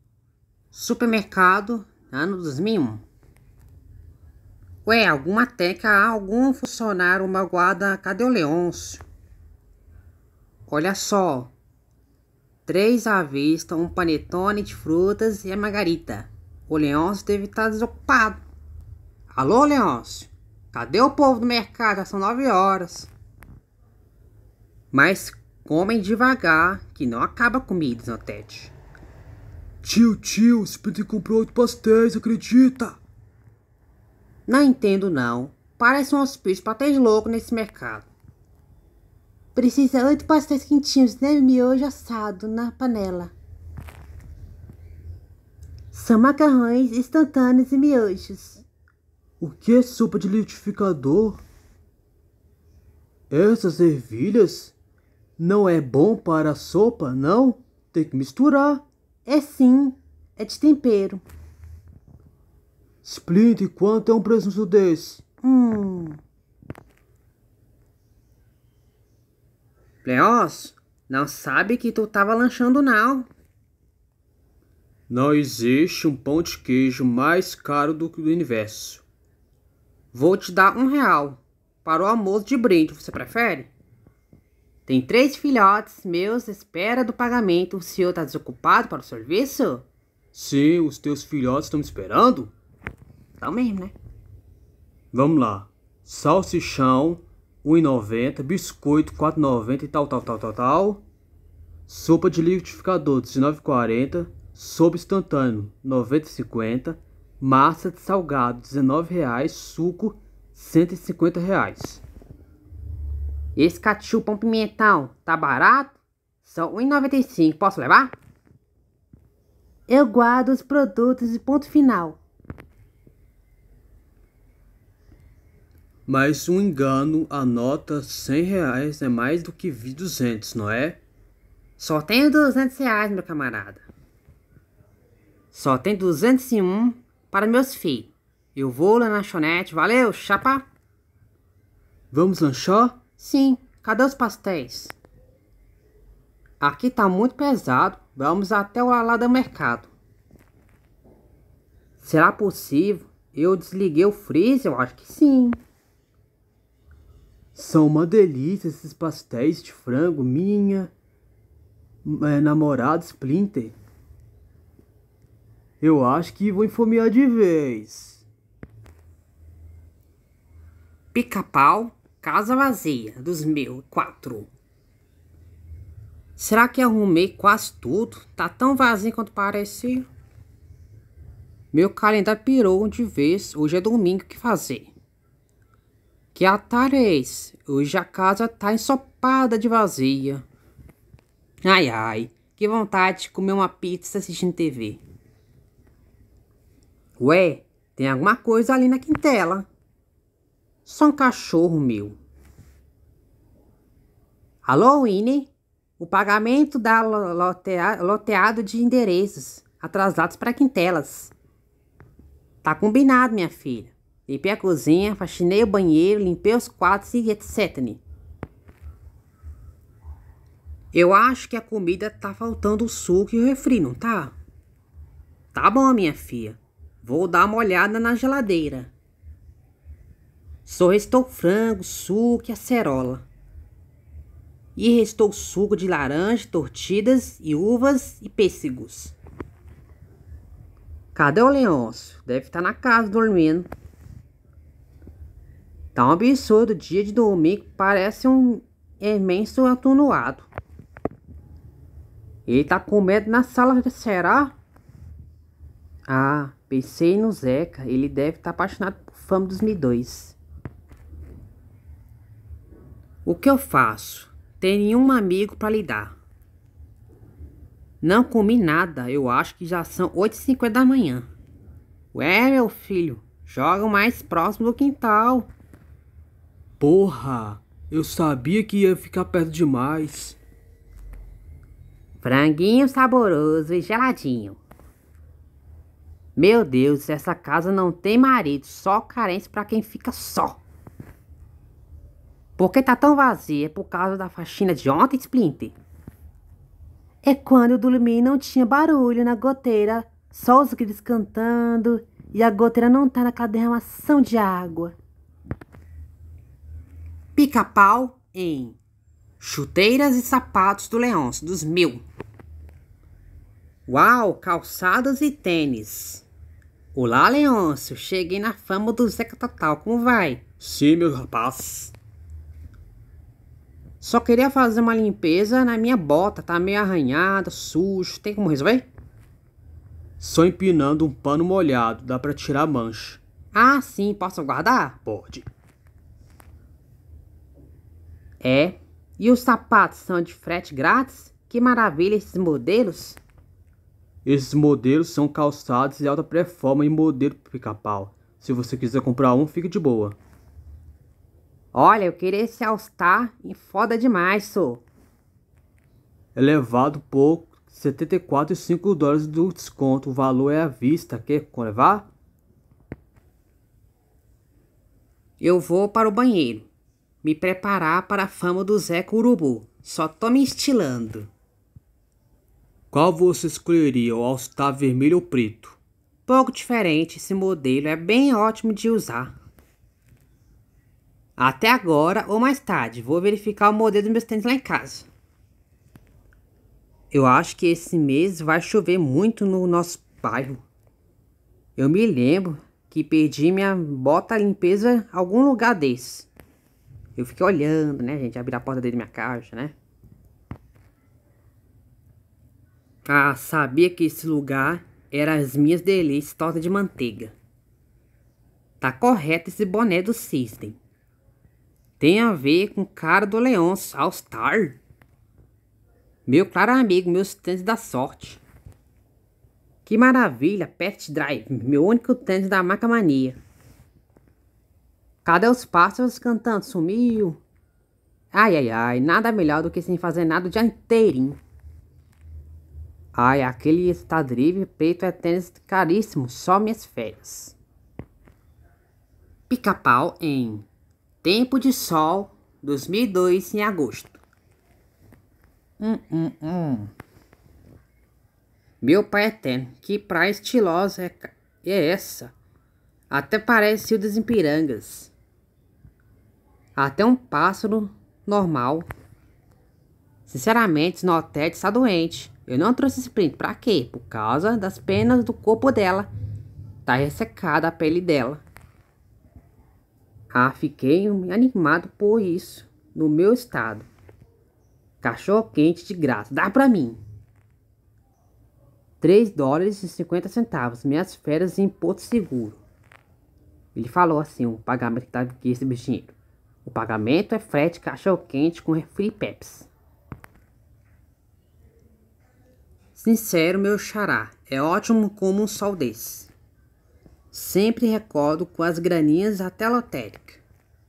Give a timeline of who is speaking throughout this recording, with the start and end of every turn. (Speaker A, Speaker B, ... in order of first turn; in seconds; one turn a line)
Speaker A: 0.7-3.0
Speaker A: 4.8-9.0
Speaker A: 10.7-11.5
Speaker A: 12.7-18.4
Speaker A: 19.3-23.1
Speaker A: 24.9-28.7
Speaker B: 29.8-33.0
Speaker A: 34.5-38.1
Speaker A: 39.5-43.3
Speaker A: 45.9-48.6
Speaker B: 49.4-51.4
Speaker B: 53.3-54.7
Speaker B: 55.4-58.8
Speaker A: 59.2-61.2
Speaker B: 63.0-65.2
Speaker A: 65.4-66.2
Speaker A: 70.0-73.3
Speaker B: 75.1-79.0
Speaker A: 80.1-83.7
Speaker A: 84.9-89.8
Speaker B: 90.3-92.5
Speaker A: 93.4-93.9
Speaker B: 95.1-101.0
Speaker B: 101.9-112.0
Speaker A: 113.5-118.1
Speaker A: 119.9-122.2
Speaker B: 126.1-131.0
Speaker A: 131.8-133.8
Speaker A: 135.5-140.6
Speaker B: 142.1-143.0
Speaker A: 143.1-144.9
Speaker A: 146.6-149.9
Speaker A: 152.0-155.6
Speaker B: 157.6-160.9
Speaker B: 162.0-163.7
Speaker B: 165.8-168.2
Speaker A: 171.1-174.5
Speaker A: 176.4-180.1
Speaker A: 181.7-184.9
Speaker A: 186.3-190.4
Speaker A: 191.6-195.0
Speaker A: 197.2-199.7
Speaker A: 200.8-202.2
Speaker A: 204.6-211.3
Speaker A: 212.6-218.0
Speaker A: 220.9-224.3
Speaker A: 225.5-228.9
Speaker A: 230.6-233.2
Speaker A: 234.8-239.1
Speaker A: 241.1-243.7
Speaker A: 245.9-250.5
Speaker A: 252.4-254.5
Speaker A: 256.1-260.4
Speaker A: 263.2-266.1
Speaker A: 268.0-271.3
Speaker A: 272.1-275.5
Speaker B: 276.8-280.4
Speaker A: 282.2-284.6
Speaker A: 286.4-290.6
Speaker A: 292.6-295.7
Speaker A: 297.2-304.9
Speaker A: 307.4-308.8
Speaker A: 309.4-312.0
Speaker A: 313.9-316.2
Speaker A: 316.9-320.5
Speaker B: 320.6-321.9
Speaker A: 324.0-328.9
Speaker B: 330.2-333.2
Speaker A: 333.5-335.0
Speaker B: 335.1-335.4
Speaker A: 338.4-343.2
Speaker B: 344.2-350.2
Speaker A: 351.7-354.8
Speaker B: 356.3-362.1
Speaker A: 365.4-366.7
Speaker A: 367.2-371.3
Speaker B: 372.9-375.8
Speaker A: 376.3-379.3
Speaker A: 381.4-385.1
Speaker A: 387.1-390.6
Speaker A: 391.8-396.3
Speaker A: 397.1-399.7
Speaker A: 403.1-407.3
Speaker A: 408.8-410.8
Speaker A: 412.0-414.8
Speaker A: 416.3-418.4
Speaker A: 419.9-423.4
Speaker A: 425.2-427.4
Speaker A: 428.3-431.4
Speaker A: 433.1-437.6
Speaker A: 439.5-440.7
Speaker A: 441.2-444.2
Speaker A: 445.8-446.9
Speaker A: 448.8-452.3
Speaker A: 453.1-455.1
Speaker A: 456.8-458.9
Speaker A: 460.3-466.1
Speaker A: 466.9-468.4
Speaker A: 470.3-473.9
Speaker A: 475.0-477.0
Speaker A: 479.0-482.6
Speaker A: 483.7-489.7
Speaker A: 492.9-496.3
Speaker A: 497.3-500.4